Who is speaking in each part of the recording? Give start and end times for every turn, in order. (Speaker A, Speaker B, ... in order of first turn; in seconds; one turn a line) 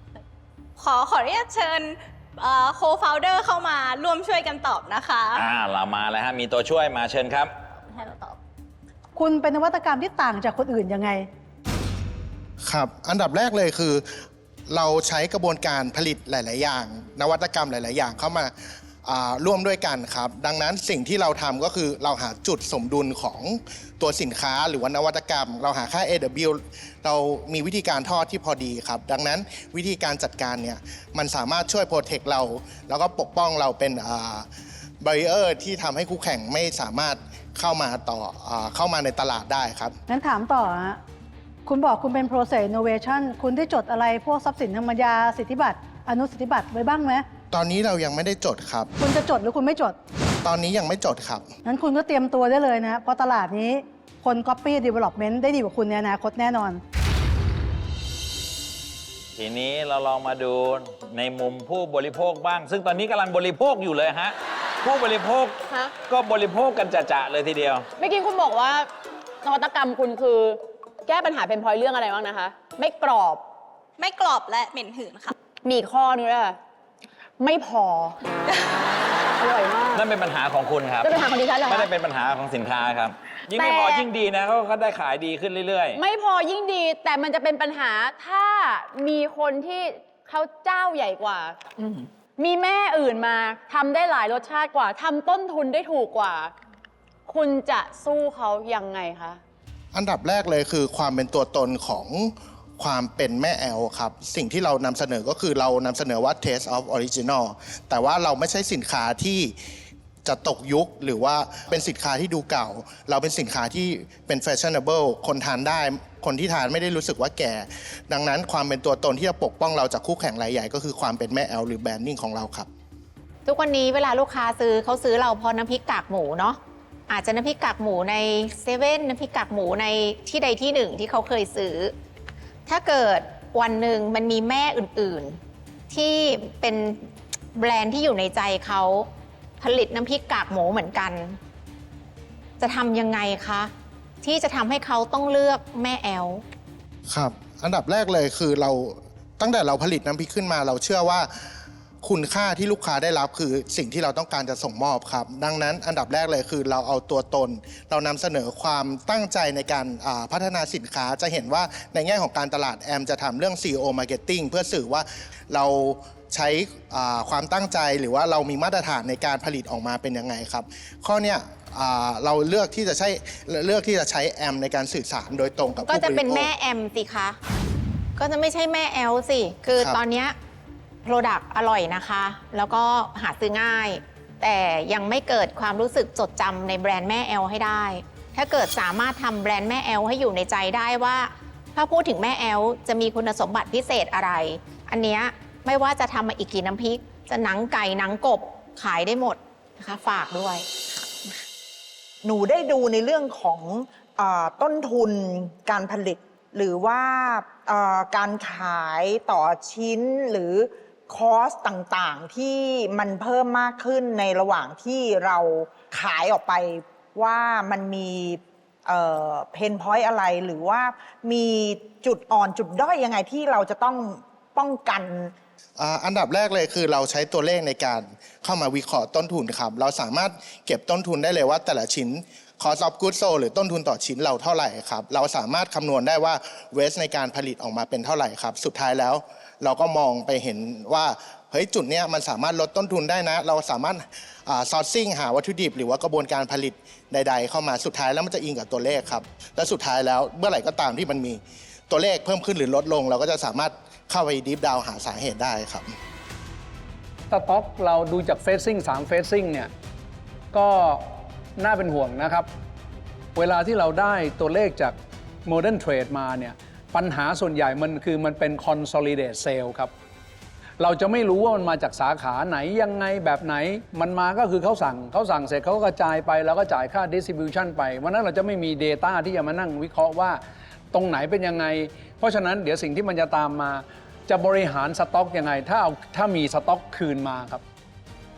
Speaker A: 0.8-5.4
Speaker B: 5.3-7.5
Speaker A: 7.9-8.3
Speaker C: 9.2-11.3
Speaker D: 12.6-14.0
Speaker D: 14.7-18.5
Speaker D: 19.0-34.5
Speaker D: 35.0-39.9
Speaker C: 40.1-41.0
Speaker C: 41.6-47.2
Speaker D: 47.5-48.9
Speaker C: 49.0-50.0
Speaker D: 50.4-51.5
Speaker C: 51.6-56.8
Speaker B: 59.4-65.6
Speaker B: 66.1-67.8
Speaker E: 68.0-68.9
Speaker E: 69.4-73.5
Speaker A: 74.0-75.3
Speaker E: 75.6-76.6
Speaker E: 77.4-78.2
Speaker E: 79.4-80.0
Speaker B: 79.9-86.0
Speaker E: 81.0-81.9
Speaker E: 83.5-84.1
Speaker E: 85.9-91.8
Speaker E: 92.4-96.5
Speaker E: 97.3-99.4
Speaker D: 99.9-109.5
Speaker D: 110.2-122.7
Speaker F: 123.5-131.9
Speaker F: 132.7-135.4
Speaker F: 135.9-139.1
Speaker F: 139.6-141.4
Speaker F: 142.6-146.4
Speaker D: 147.1-151.3
Speaker D: 152.0-176.5
Speaker F: 175.8-177.4
Speaker F: 178.2-180.3
Speaker F: 181.0-200.7
Speaker G: 202.2-225.3
Speaker D: 225.8-255.9
Speaker H: 257.3-259.7
Speaker H: 260.5-261.0
Speaker H: 261.6-262.5
Speaker H: 263.3-269.9
Speaker H: 270.8-280.4
Speaker H: 280.9-287.6